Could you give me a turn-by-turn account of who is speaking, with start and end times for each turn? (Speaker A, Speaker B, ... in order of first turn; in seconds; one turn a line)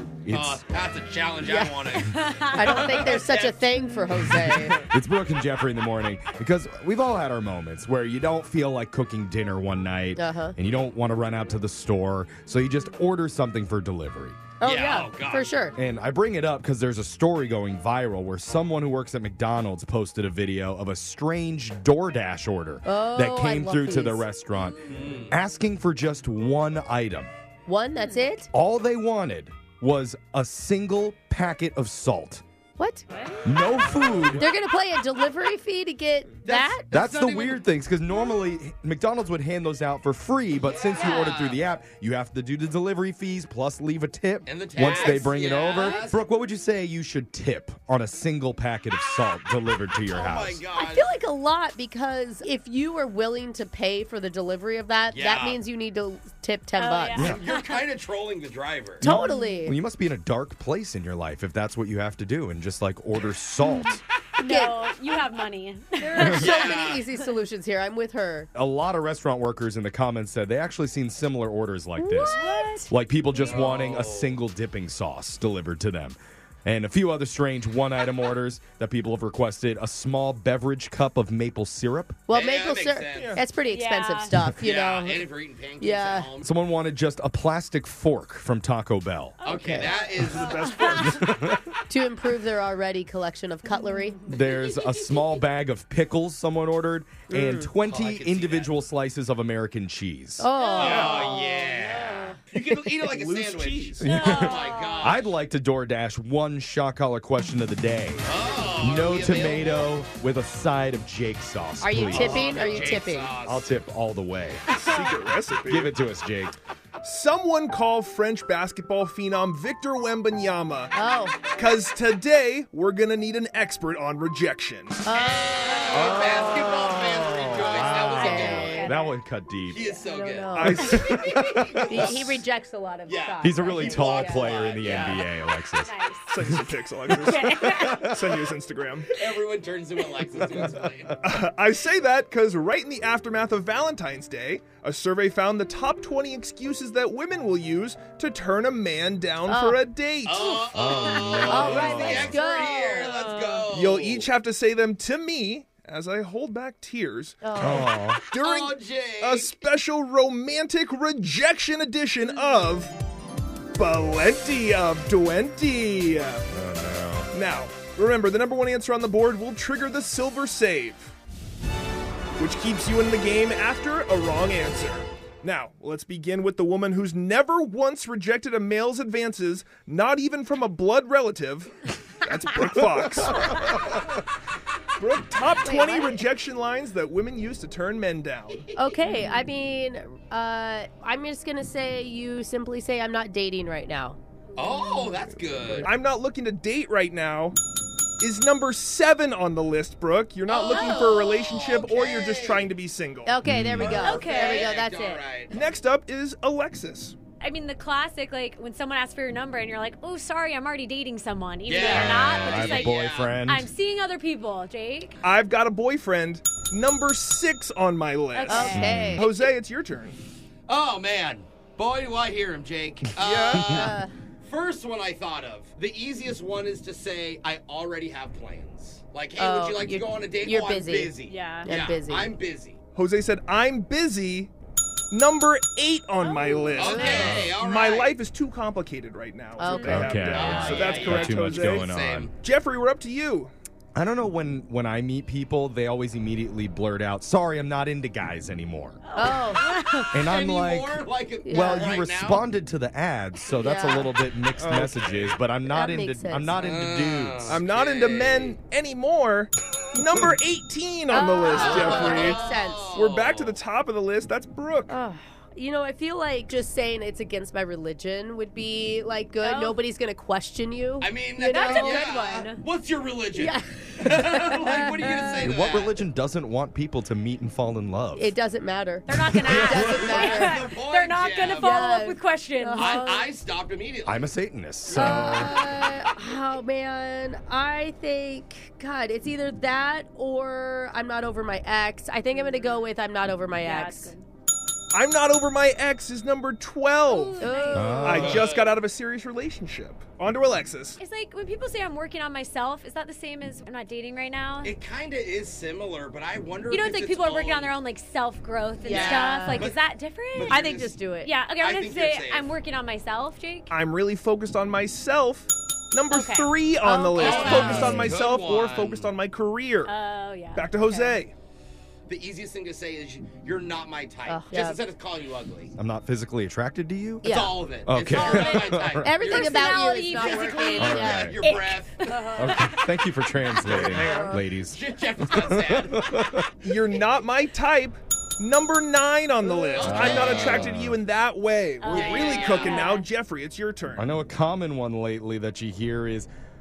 Speaker A: 0.2-0.7
Speaker B: 0.3-3.9
Speaker C: 1.4-4.9
Speaker D: 2.1-3.1
Speaker A: 4.7-14.4
Speaker C: 10.2-10.5
Speaker C: 14.6-15.8
Speaker B: 14.6-15.5
Speaker A: 15.8-27.3
Speaker C: 22.8-24.2
Speaker B: 24.8-25.4
Speaker C: 27.6-28.5
Speaker A: 28.5-32.4
Speaker C: 32.8-33.0
Speaker D: 33.1-33.4
Speaker A: 33.5-34.5
Speaker C: 34.3-36.9
Speaker B: 36.4-37.7
Speaker A: 36.9-50.6
Speaker B: 40.7-41.6
Speaker D: 40.8-41.2
Speaker B: 44.5-46.2
Speaker C: 45.8-46.0
Speaker B: 50.1-51.1
Speaker C: 50.8-57.3
Speaker B: 55.1-55.6
Speaker D: 56.8-57.9
Speaker A: 57.1-57.4
Speaker B: 57.2-59.0
Speaker C: 59.0-59.8
Speaker A: 59.0-64.0
Speaker C: 64.4-64.9
Speaker D: 64.4-66.7
Speaker C: 66.0-68.5
Speaker A: 66.2-66.4
Speaker B: 66.4-67.0
Speaker A: 68.5-82.3
Speaker C: 72.0-72.7
Speaker D: 72.3-72.9
Speaker B: 73.4-74.4
Speaker C: 82.3-85.3
Speaker B: 82.3-83.4
Speaker E: 83.1-83.4
Speaker D: 83.6-84.3
Speaker B: 84.6-86.5
Speaker C: 85.8-86.3
Speaker A: 86.4-89.4
Speaker D: 89.4-91.2
Speaker C: 89.4-90.3
Speaker B: 89.4-90.5
Speaker E: 90.1-91.3
Speaker A: 90.9-91.7
Speaker C: 91.9-94.4
Speaker A: 94.3-100.5
Speaker C: 97.3-97.7
Speaker B: 97.8-98.7
Speaker C: 100.4-102.8
Speaker D: 100.7-101.3
Speaker B: 100.8-105.3
Speaker E: 100.8-101.2
Speaker E: 102.9-104.0
Speaker A: 104.0-114.6
Speaker D: 104.0-105.2
Speaker B: 108.2-109.9
Speaker C: 111.8-113.3
Speaker B: 112.1-113.7
Speaker E: 114.7-115.9
Speaker D: 114.7-115.2
Speaker A: 115.7-116.5
Speaker E: 117.0-120.9
Speaker C: 120.9-121.5
Speaker E: 121.5-125.1
Speaker C: 125.0-126.7
Speaker B: 125.1-128.9
Speaker D: 125.6-126.6
Speaker A: 125.9-129.9
Speaker D: 127.7-129.2
Speaker C: 127.7-129.0
Speaker B: 129.7-132.4
Speaker C: 129.8-131.1
Speaker E: 130.5-131.3
Speaker A: 130.8-132.2
Speaker C: 131.9-135.1
Speaker B: 133.1-135.2
Speaker A: 133.4-138.2
Speaker D: 133.8-134.2
Speaker D: 134.8-136.3
Speaker E: 136.3-139.2
Speaker D: 137.1-138.1
Speaker B: 139.1-141.2
Speaker E: 141.2-150.7
Speaker C: 149.5-149.8
Speaker B: 150.2-154.3
Speaker A: 150.7-152.4
Speaker C: 151.2-153.7
Speaker E: 153.7-162.9
Speaker C: 157.4-158.0
Speaker A: 157.6-158.2
Speaker B: 158.2-159.5
Speaker E: 163.8-166.5
Speaker A: 166.5-167.3
Speaker E: 167.3-171.1
Speaker E: 172.4-183.9
Speaker E: 185.0-188.7
Speaker C: 185.6-186.2
Speaker C: 188.8-194.2
Speaker B: 194.6-195.9
Speaker D: 194.6-195.2
Speaker E: 195.8-197.6
Speaker E: 198.2-203.4
Speaker B: 200.5-202.7
Speaker C: 203.2-205.2
Speaker A: 203.4-204.2
Speaker D: 203.8-204.8
Speaker B: 204.1-205.6
Speaker E: 205.5-207.2
Speaker D: 207.4-215.2
Speaker B: 211.7-213.3
Speaker A: 211.8-213.7
Speaker E: 215.2-220.2
Speaker D: 218.3-219.2
Speaker C: 218.5-219.3
Speaker A: 218.6-219.2
Speaker B: 220.7-232.8
Speaker E: 223.2-223.7
Speaker A: 223.5-223.9
Speaker C: 223.6-224.1
Speaker C: 229.4-232.3
Speaker D: 231.2-231.7
Speaker E: 232.9-234.5
Speaker E: 235.1-243.5
Speaker D: 236.2-237.3
Speaker C: 236.4-237.3
Speaker B: 236.7-238.2
Speaker A: 237.0-237.6
Speaker C: 239.6-240.7
Speaker D: 239.7-240.9
Speaker A: 239.7-242.3
Speaker B: 240.2-242.3
Speaker A: 243.9-249.0
Speaker D: 249.1-250.2
Speaker C: 249.2-249.7
Speaker A: 250.1-257.6
Speaker B: 250.3-252.4
Speaker C: 251.4-252.0
Speaker C: 253.5-254.2
Speaker E: 254.6-255.0
Speaker B: 255.0-255.3
Speaker C: 255.6-256.6
Speaker B: 256.6-258.6
Speaker E: 257.4-265.0
Speaker C: 261.1-262.9
Speaker B: 261.5-263.6
Speaker D: 261.5-262.5
Speaker C: 264.9-272.3
Speaker D: 269.4-269.8
Speaker B: 271.0-276.0
Speaker D: 271.5-272.6
Speaker C: 273.3-275.7
Speaker A: 275.4-278.4
Speaker C: 278.2-280.7
Speaker D: 279.1-283.1
Speaker A: 279.2-280.4
Speaker B: 279.9-281.7
Speaker C: 281.5-283.3
Speaker B: 282.8-284.3
Speaker A: 284.1-285.6
Speaker B: 284.9-285.5
Speaker C: 284.9-294.1
Speaker D: 292.3-292.9
Speaker D: 293.6-294.2
Speaker E: 294.9-301.0
Speaker D: 297.1-298.1
Speaker C: 297.4-298.3
Speaker A: 297.7-298.5
Speaker B: 298.0-298.8
Speaker D: 301.0-304.8
Speaker B: 304.6-307.8
Speaker D: 306.7-313.7
Speaker C: 308.8-309.7
Speaker B: 308.9-309.8
Speaker B: 310.3-311.0
Speaker C: 310.5-311.3
Speaker B: 311.6-312.5
Speaker E: 313.7-320.0
Speaker D: 316.1-316.6
Speaker C: 316.8-317.9
Speaker D: 317.1-317.9
Speaker B: 317.2-319.1
Speaker A: 317.3-318.2
Speaker D: 319.8-321.2
Speaker E: 320.6-321.3
Speaker B: 322.1-325.7
Speaker C: 324.3-324.8
Speaker A: 325.8-329.7
Speaker C: 327.2-331.6
Speaker B: 327.3-332.1
Speaker D: 329.2-333.6
Speaker A: 330.8-331.4
Speaker A: 332.4-336.6
Speaker E: 333.6-334.4
Speaker C: 333.9-334.4
Speaker B: 334.5-336.3
Speaker E: 336.6-344.1
Speaker B: 339.7-340.7
Speaker A: 339.8-341.0
Speaker D: 341.8-343.0
Speaker B: 341.9-342.9
Speaker A: 344.0-346.3